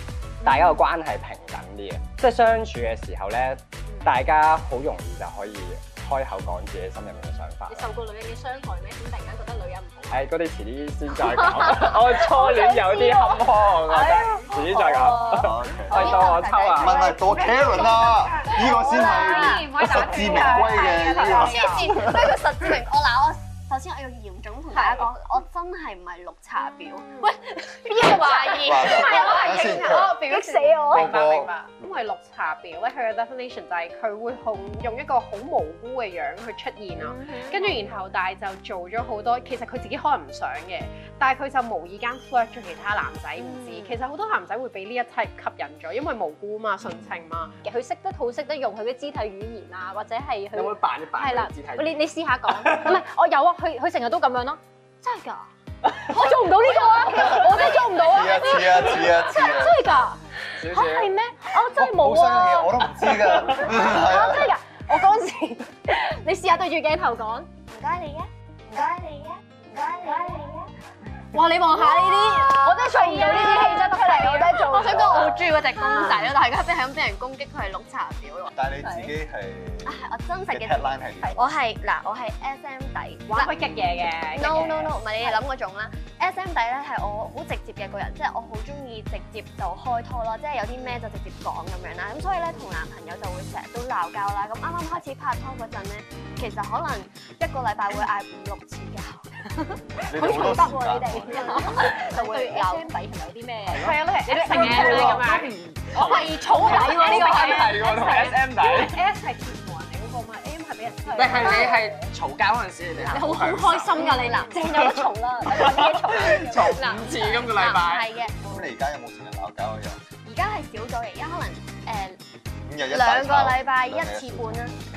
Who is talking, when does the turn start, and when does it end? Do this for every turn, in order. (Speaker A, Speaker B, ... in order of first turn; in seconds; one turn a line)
Speaker A: 0.4-0.8
Speaker B: 0.4-7.9
Speaker A: 7.7-10.3
Speaker B: 10.1-17.1
Speaker A: 11.3-15.5
Speaker C: 15.3-22.4
Speaker D: 15.9-19.9
Speaker E: 17.4-21.9
Speaker A: 18.4-21.8
Speaker D: 21.1-27.2
Speaker A: 24.8-25.1
Speaker A: 27.2-31.2
Speaker E: 27.9-47.5
Speaker C: 28.6-30.2
Speaker C: 30.9-31.6
Speaker A: 37.1-37.8
Speaker A: 43.5-43.9
Speaker A: 47.6-54.6
Speaker B: 50.5-53.0
Speaker A: 56.1-62.8
Speaker C: 57.1-59.9
Speaker B: 60.6-61.1
Speaker C: 61.8-64.5
Speaker A: 63.5-67.5
Speaker D: 67.7-70.7
Speaker A: 71.3-75.4
Speaker D: 71.7-78.5
Speaker E: 73.1-74.7
Speaker C: 78.5-81.5
Speaker A: 78.8-79.1
Speaker D: 79.8-83.6
Speaker E: 83.3-85.4
Speaker A: 83.3-84.9
Speaker D: 84.3-99.6
Speaker C: 100.0-101.4
Speaker A: 100.1-105.4
Speaker D: 101.3-102.9
Speaker E: 101.4-101.7
Speaker E: 103.7-112.1
Speaker B: 104.5-109.0
Speaker A: 106.0-108.5
Speaker D: 106.0-107.6
Speaker A: 111.1-111.8
Speaker B: 111.1-114.1
Speaker A: 113.1-116.8
Speaker D: 113.9-114.5
Speaker B: 114.6-118.1
Speaker D: 116.5-118.6
Speaker C: 118.4-120.0
Speaker D: 120.2-122.2
Speaker C: 122.7-124.6
Speaker D: 122.9-124.8